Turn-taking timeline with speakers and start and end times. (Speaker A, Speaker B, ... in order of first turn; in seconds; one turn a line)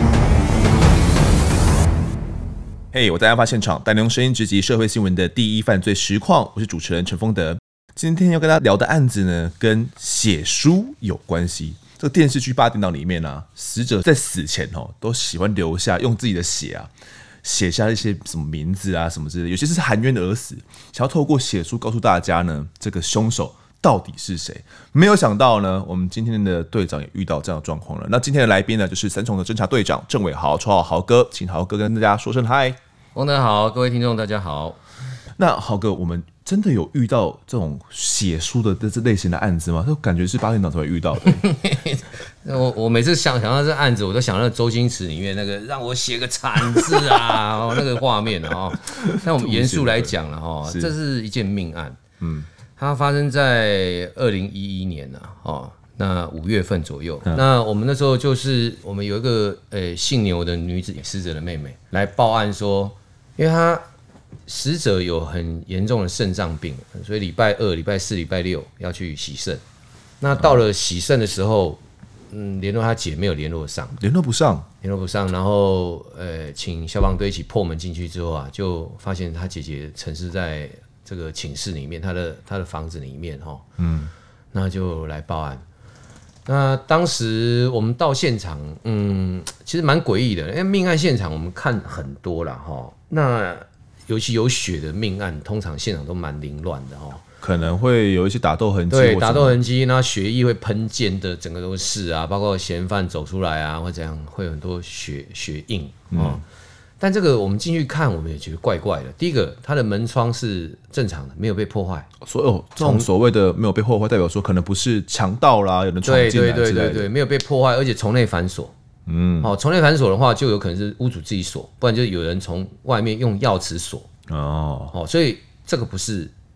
Speaker A: 2.9-16.9
Speaker A: 17.4-32.8
Speaker B: 33.1-34.8
Speaker A: 35.4-41.5
Speaker B: 41.2-52.0
Speaker A: 48.9-50.1
Speaker A: 50.6-50.9
Speaker A: 52.2-52.5
Speaker B: 52.8-63.9
Speaker B: 64.5-69.6
Speaker B: 70.2-74.0
Speaker A: 74.0-74.7
Speaker B: 74.8-83.7
Speaker A: 83.8-84.1
Speaker B: 84.5-85.6
Speaker B: 86.5-97.2
Speaker A: 97.4-99.6
Speaker B: 98.9-106.4
Speaker A: 106.1-106.4
Speaker B: 107.0-112.1
Speaker A: 112.2-117.1
Speaker B: 112.8-113.1
Speaker B: 116.0-118.7
Speaker A: 119.1-119.5
Speaker B: 119.4-124.1
Speaker A: 124.3-124.9
Speaker B: 124.9-126.3